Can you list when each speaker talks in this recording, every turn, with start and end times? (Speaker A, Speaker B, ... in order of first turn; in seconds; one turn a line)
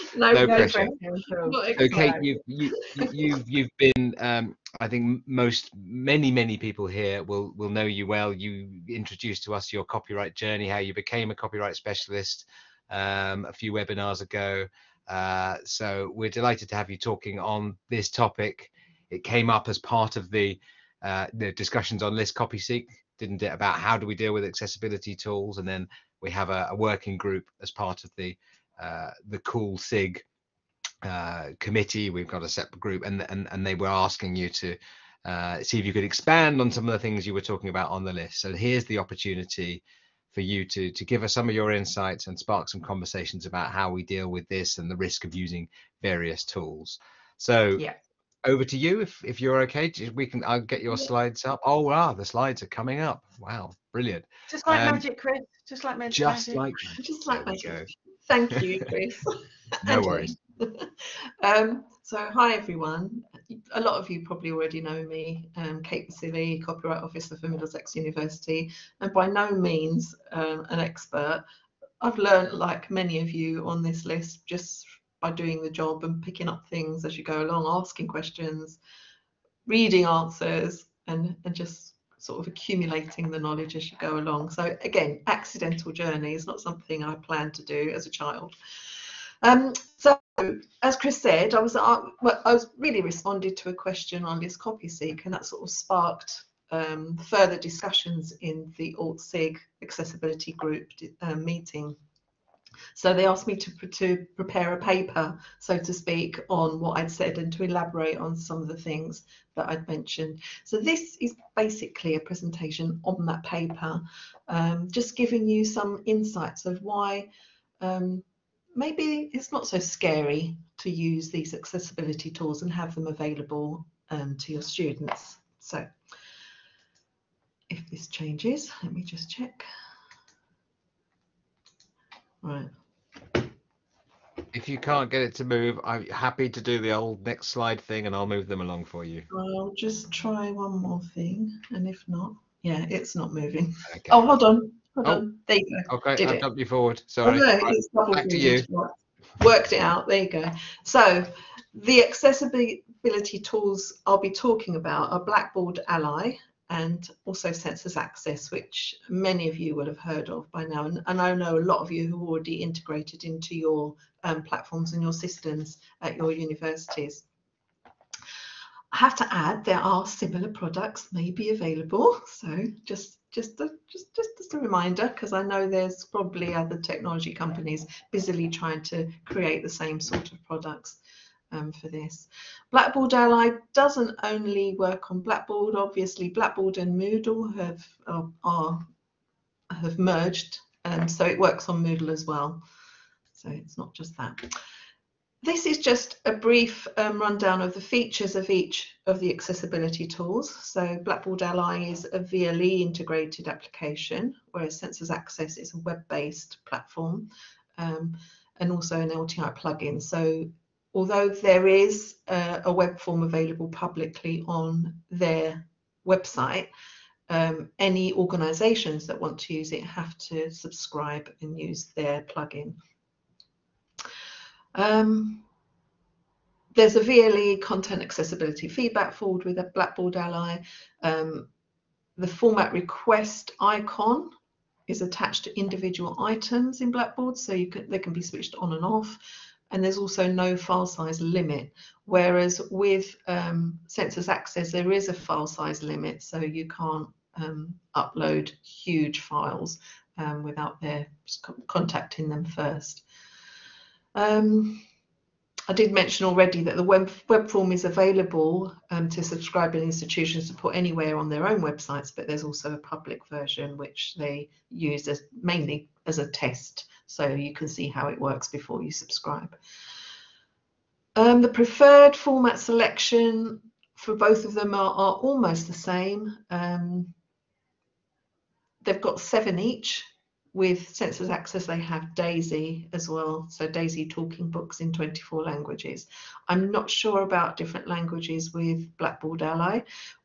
Speaker A: 0.1-2.2
Speaker B: 0.3-0.9
Speaker C: 0.4-2.2
Speaker B: 1.8-30.2
Speaker B: 31.0-47.8
Speaker B: 48.4-55.0
Speaker C: 54.5-56.6
Speaker B: 56.1-57.9
Speaker A: 56.9-71.4
Speaker B: 58.5-58.9
Speaker B: 59.8-60.3
Speaker A: 72.0-78.8
Speaker A: 79.7-88.5
Speaker A: 89.4-102.0
Speaker A: 103.0-117.3
Speaker A: 117.8-118.2
Speaker A: 118.7-125.9
Speaker A: 127.7-129.7
Speaker A: 132.4-132.7
Speaker B: 134.5-139.3
Speaker A: 139.3-146.4
Speaker B: 143.9-144.3
Speaker B: 145.9-148.7
Speaker A: 147.2-167.2
Speaker A: 168.9-181.0
Speaker A: 181.5-188.8
Speaker A: 189.7-192.6
Speaker A: 193.3-194.5
Speaker A: 195.4-216.7
Speaker A: 217.3-222.8
Speaker A: 224.7-225.4
Speaker A: 226.7-231.5
Speaker A: 232.2-234.3
Speaker A: 234.9-253.0
Speaker A: 254.1-254.8
Speaker A: 255.7-269.6
Speaker A: 271.1-277.1
Speaker A: 278.8-289.8